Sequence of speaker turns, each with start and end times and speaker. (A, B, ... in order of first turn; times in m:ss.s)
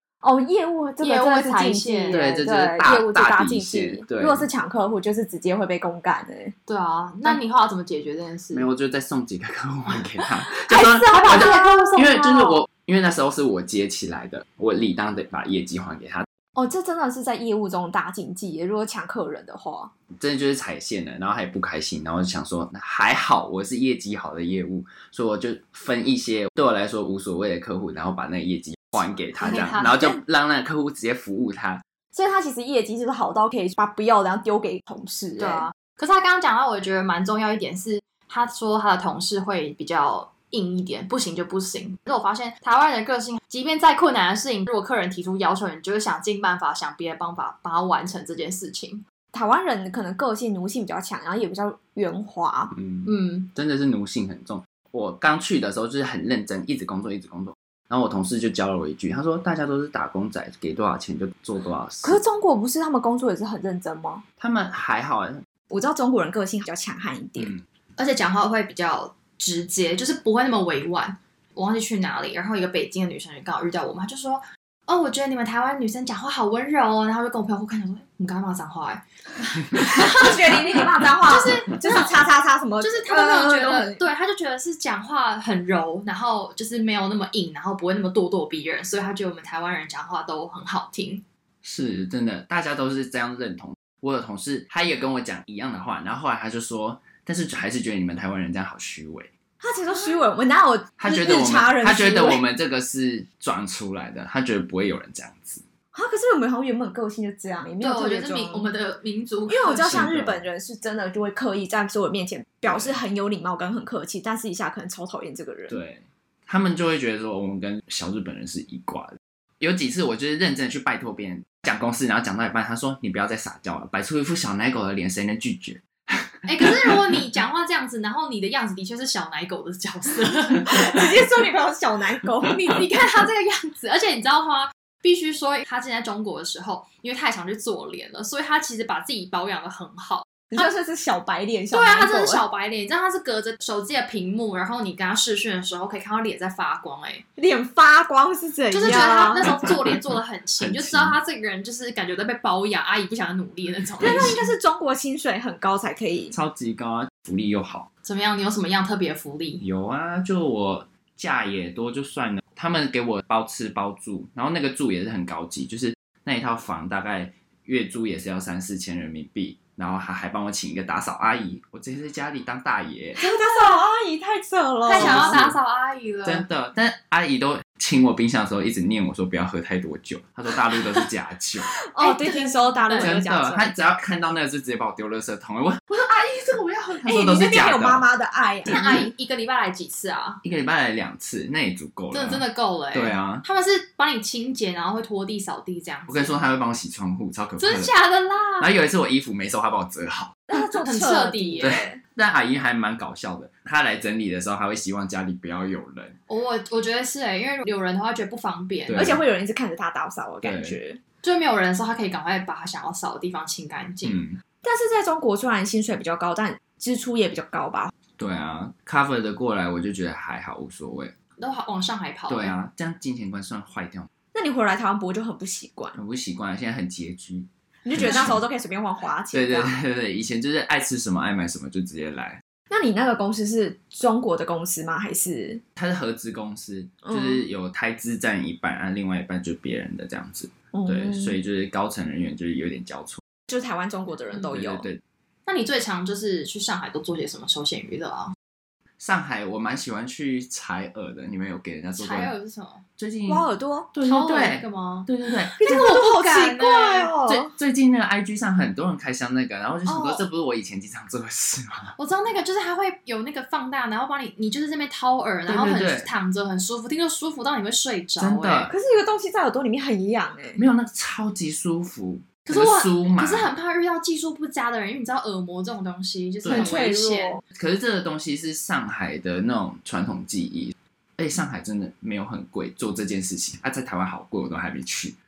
0:00.2-0:06.5 A
0:01.0-0:02.2 B
0:02.1-0:04.5 C
0:06.7-0:08.7 B
0:08.5-0:16.3 C
0:10.7-0:12.0 A
0:10.8-0:12.6 B
0:16.6-0:19.9 A
0:20.2-0:31.8 C
0:29.4-0:30.2 B
0:29.4-0:30.0 A
0:32.1-0:35.7 A
0:35.4-0:49.0 B
0:49.3-0:52.7 A
0:52.7-1:02.2 C
0:53.0-0:53.5 B
1:02.0-1:04.2 A
1:04.4-1:05.4 C
1:05.7-1:07.5 A
1:07.4-1:07.6 C
1:08.0-1:19.0 B
1:19.7-1:22.1 B
1:19.7-1:24.0 A
1:22.8-1:31.2 B
1:31.6-1:39.3 C
1:39.6-1:42.4 A
1:41.0-1:45.6 C
1:45.9-1:48.7 A
1:47.8-1:50.1 B
1:49.5-1:55.8 A
1:49.8-1:50.4 C
1:52.6-1:53.0 C
1:55.7-2:07.0 C
2:06.4-2:11.1 B
2:10.6-2:12.8 A
2:12.5-2:20.7 B
2:20.5-2:22.4 A
2:21.7-2:27.2 B
2:27.4-2:29.6 A
2:28.7-2:34.5 B
2:30.6-2:31.2 C
2:34.0-2:36.4 A
2:34.0-2:34.3 C
2:36.3-2:37.9 C
2:38.0-2:39.6 B
2:39.6-2:53.2 C
2:53.2-2:55.4 A
2:54.9-2:56.4 B
2:54.9-2:55.6 C
2:56.2-3:01.7 C
3:01.7-3:03.7 A
3:02.0-3:03.2 B
3:03.0-3:08.1 C
3:07.0-3:09.1 A
3:08.7-3:10.4 B
3:08.7-3:09.1 C
3:10.4-3:13.4 C
3:12.1-3:16.4 B
3:16.1-3:17.9 C
3:17.6-3:18.7 B
3:18.6-3:20.4 C
3:20.5-3:22.0 A
3:20.5-3:21.8 B
3:21.6-3:26.2 C
3:26.3-3:29.1 B
3:28.9-3:29.2 C
3:28.9-3:31.0 A
3:30.4-3:30.8 C
3:31.2-3:34.2 B
3:34.0-3:34.4 C
3:34.6-3:37.9 A
3:38.2-3:41.1 C
3:41.4-3:42.5 B
3:42.3-3:44.1 C
3:44.3-3:46.0 A
3:46.0-3:48.4 C
3:47.8-3:49.8 A
3:49.3-3:52.4 C
3:52.7-3:55.6 A
3:55.8-4:03.2 C
3:57.0-3:57.4 A
4:00.7-4:01.4 A
4:03.5-4:04.9 A
4:04.5-4:05.0 C
4:05.4-4:08.3 B
4:09.0-4:12.3 C
4:12.0-4:12.8 B
4:13.0-4:15.9 C
4:13.3-4:13.9 A
4:14.0-4:17.2 B
4:15.6-4:17.5 A
4:17.2-4:22.0 C
4:22.0-4:28.7 B
4:25.5-4:26.1 C
4:28.2-4:28.8 C
4:28.7-4:30.6 A
4:30.6-4:33.5 C
4:32.4-4:37.4 B
4:36.4-4:36.9 C
4:36.5-4:37.4 A
4:37.5-4:45.2 C